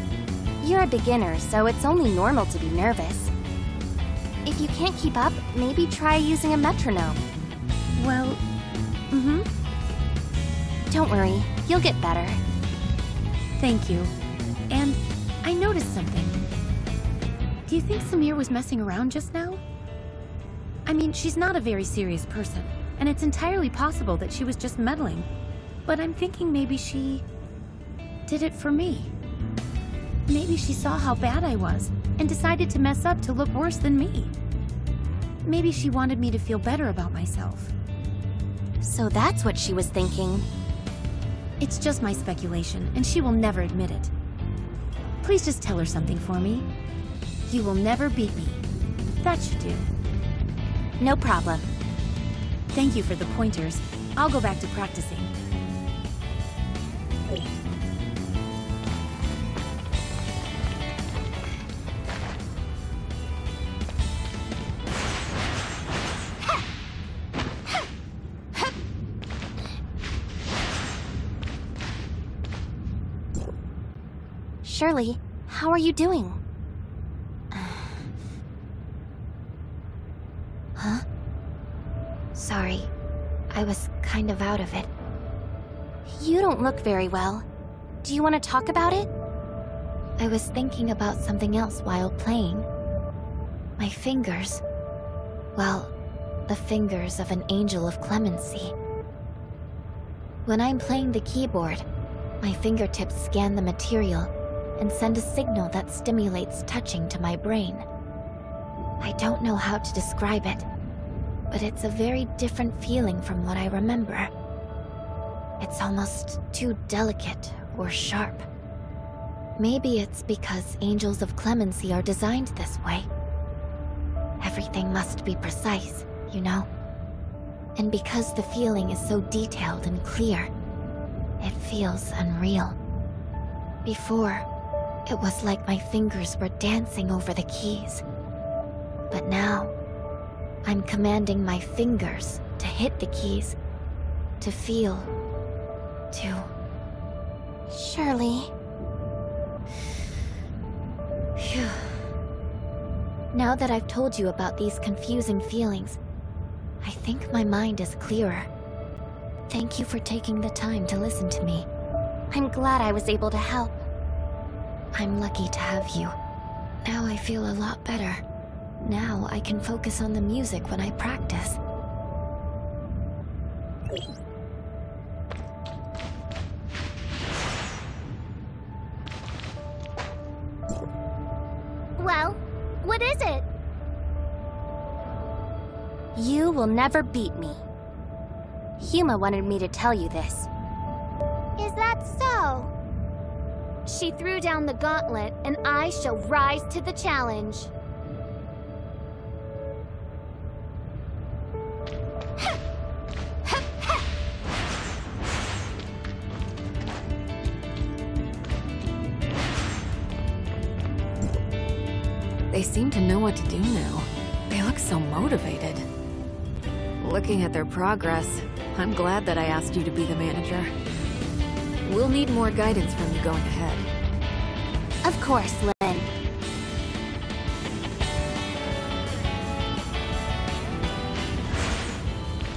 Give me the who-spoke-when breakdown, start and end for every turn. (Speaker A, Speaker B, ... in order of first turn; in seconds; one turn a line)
Speaker A: 0.6-3.3
Speaker A: 4.5-7.2
Speaker B: 8.0-8.4
Speaker B: 9.1-9.5
Speaker A: 10.9-12.4
Speaker B: 13.6-14.1
Speaker B: 14.7-16.4
Speaker B: 17.7-19.6
Speaker B: 20.9-25.3
Speaker B: 25.9-27.2
Speaker B: 28.3-29.1
Speaker B: 30.3-34.3
Speaker B: 35.4-37.7
Speaker A: 38.8-40.5
Speaker B: 41.6-44.1
Speaker B: 45.2-46.7
Speaker B: 47.5-48.6
Speaker B: 49.2-49.9
Speaker A: 51.0-51.7
Speaker B: 52.7-55.3
Speaker A: 74.6-76.4
Speaker C: 77.5-78.0
Speaker C: 80.8-81.0
Speaker C: 82.3-82.9
Speaker C: 83.5-84.9
Speaker A: 86.1-87.5
Speaker A: 88.0-89.1
Speaker C: 90.2-92.7
Speaker C: 93.8-94.6
Speaker C: 95.5-95.9
Speaker C: 96.5-98.7
Speaker C: 100.5-101.8
Speaker C: 102.4-107.8
Speaker C: 109.0-110.7
Speaker C: 111.5-114.3
Speaker C: 115.6-118.5
Speaker C: 119.6-123.1
Speaker C: 124.4-126.7
Speaker C: 127.8-130.5
Speaker C: 131.4-132.8
Speaker C: 133.8-134.5
Speaker C: 135.1-138.0
Speaker C: 139.1-139.7
Speaker C: 140.6-143.6
Speaker C: 144.4-145.1
Speaker C: 146.1-146.5
Speaker A: 147.7-148.5
Speaker C: 151.4-152.1
Speaker C: 153.3-156.0
Speaker C: 156.8-158.5
Speaker C: 159.5-161.7
Speaker A: 162.3-163.8
Speaker C: 164.9-166.2
Speaker C: 166.8-168.2
Speaker C: 168.8-171.6
Speaker D: 182.0-183.4
Speaker A: 186.2-187.7
Speaker A: 188.8-190.5
Speaker D: 191.6-192.7
Speaker D: 193.9-197.7
Speaker E: 212.5-215.9
Speaker E: 217.0-220.7
Speaker E: 221.8-223.9
Speaker A: 225.0-226.1